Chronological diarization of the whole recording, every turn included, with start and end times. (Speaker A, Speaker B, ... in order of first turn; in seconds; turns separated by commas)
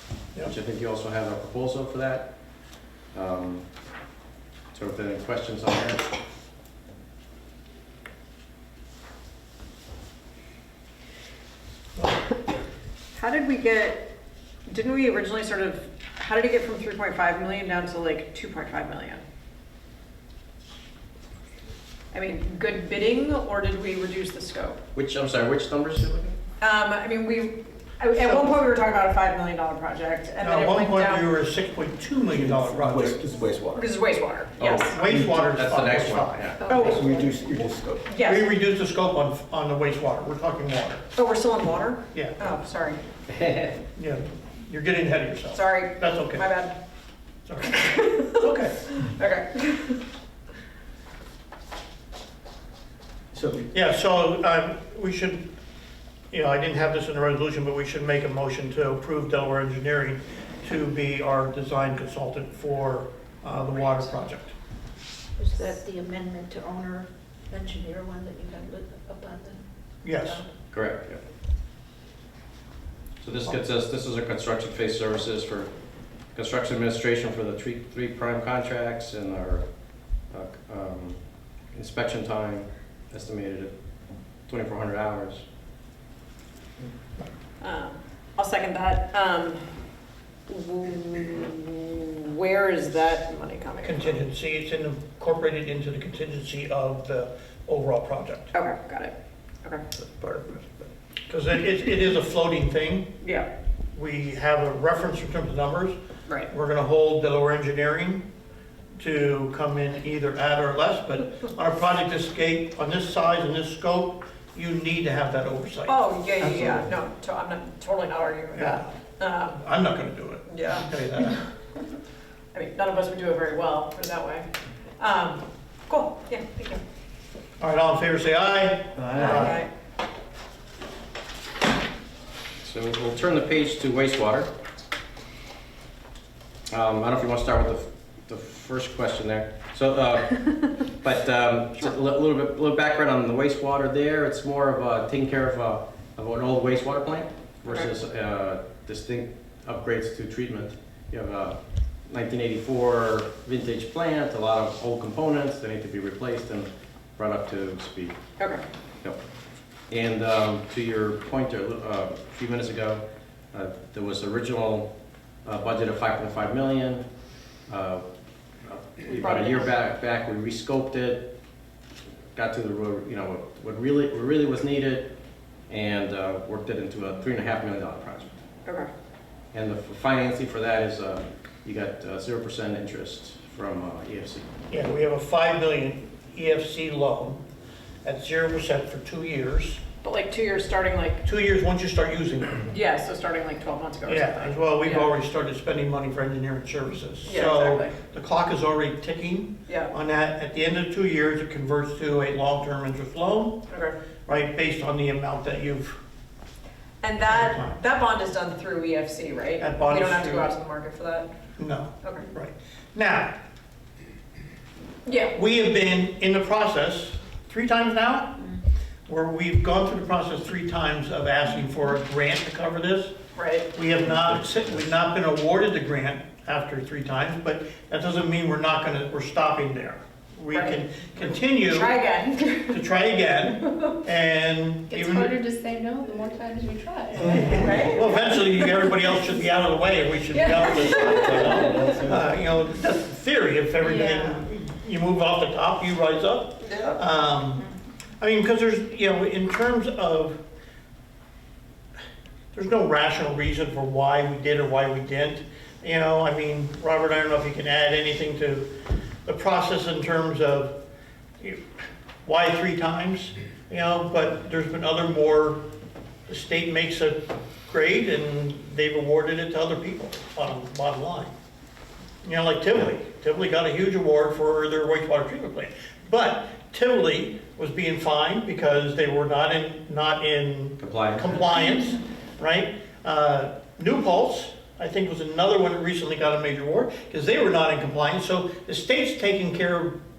Speaker A: 0.4-2.4, Speaker A: 3.1-3.6, Speaker A: 4.7-6.0, Speaker B: 12.0-12.2, Speaker C: 13.2-14.1, Speaker C: 14.7-19.2, Speaker C: 22.1-24.8, Speaker A: 24.9-26.4, Speaker C: 26.6-31.3, Speaker B: 28.2-28.6, Speaker B: 30.4-33.3, Speaker D: 32.3-33.9, Speaker C: 33.8-35.0, Speaker A: 34.6-36.9, Speaker B: 34.9-36.6, Speaker D: 35.1-35.4, Speaker C: 36.6-37.3, Speaker D: 36.7-38.1, Speaker C: 38.0-38.5, Speaker B: 38.2-41.0, Speaker C: 41.2-43.0, Speaker B: 42.1-42.4, Speaker A: 43.3-43.8, Speaker B: 44.0-46.5, Speaker C: 45.5-46.8, Speaker B: 47.5-47.8, Speaker C: 47.7-50.0, Speaker B: 48.3-48.8, Speaker D: 53.3-53.7, Speaker B: 53.7-55.5, Speaker B: 56.3-64.5, Speaker E: 65.4-70.5, Speaker B: 70.0-70.4, Speaker A: 70.7-71.2, Speaker A: 73.2-75.7, Speaker A: 76.3-79.7, Speaker A: 80.3-81.2, Speaker A: 81.7-83.7, Speaker A: 84.5-85.4, Speaker C: 87.6-89.6, Speaker C: 90.5-94.2, Speaker B: 93.8-98.5, Speaker C: 98.5-99.1, Speaker B: 100.0-100.7, Speaker B: 101.3-103.1, Speaker C: 103.2-103.5, Speaker B: 103.9-106.0, Speaker B: 106.5-108.2, Speaker B: 109.0-116.9, Speaker C: 115.9-119.6, Speaker B: 118.5-118.9, Speaker B: 119.6-121.4, Speaker C: 120.5-120.9, Speaker C: 122.5-124.5, Speaker C: 125.0-126.8, Speaker B: 127.6-129.6, Speaker C: 129.2-129.7, Speaker A: 132.6-134.5, Speaker A: 136.7-158.2, Speaker A: 159.9-164.9, Speaker A: 165.4-167.1, Speaker A: 167.7-168.0, Speaker A: 168.6-171.3, Speaker C: 169.1-169.7, Speaker A: 172.3-175.1, Speaker A: 175.7-178.3, Speaker A: 179.5-184.5, Speaker B: 184.7-187.4, Speaker B: 188.0-189.8, Speaker C: 190.0-191.2, Speaker B: 191.2-192.7, Speaker C: 192.7-195.1, Speaker B: 194.1-203.6, Speaker C: 197.2-198.0, Speaker C: 199.7-199.9, Speaker C: 203.7-204.0, Speaker B: 204.3-206.0, Speaker C: 207.0-211.3, Speaker B: 207.3-207.8, Speaker B: 209.6-210.5, Speaker B: 211.6-213.3, Speaker C: 215.1-215.4, Speaker B: 215.3-223.1, Speaker C: 223.4-223.7, Speaker B: 223.7-232.0, Speaker C: 230.5-230.8, Speaker C: 231.5-232.8, Speaker B: 232.7-235.4, Speaker C: 233.6-233.9, Speaker F: 234.9-237.8, Speaker B: 237.2-250.4, Speaker C: 237.5-238.9, Speaker C: 240.3-242.1, Speaker F: 243.8-244.4, Speaker C: 246.6-247.0, Speaker B: 252.5-258.7, Speaker B: 259.3-260.8, Speaker B: 261.4-261.6, Speaker B: 262.2-265.6, Speaker B: 266.3-271.3, Speaker B: 272.2-290.0, Speaker A: 280.8-281.3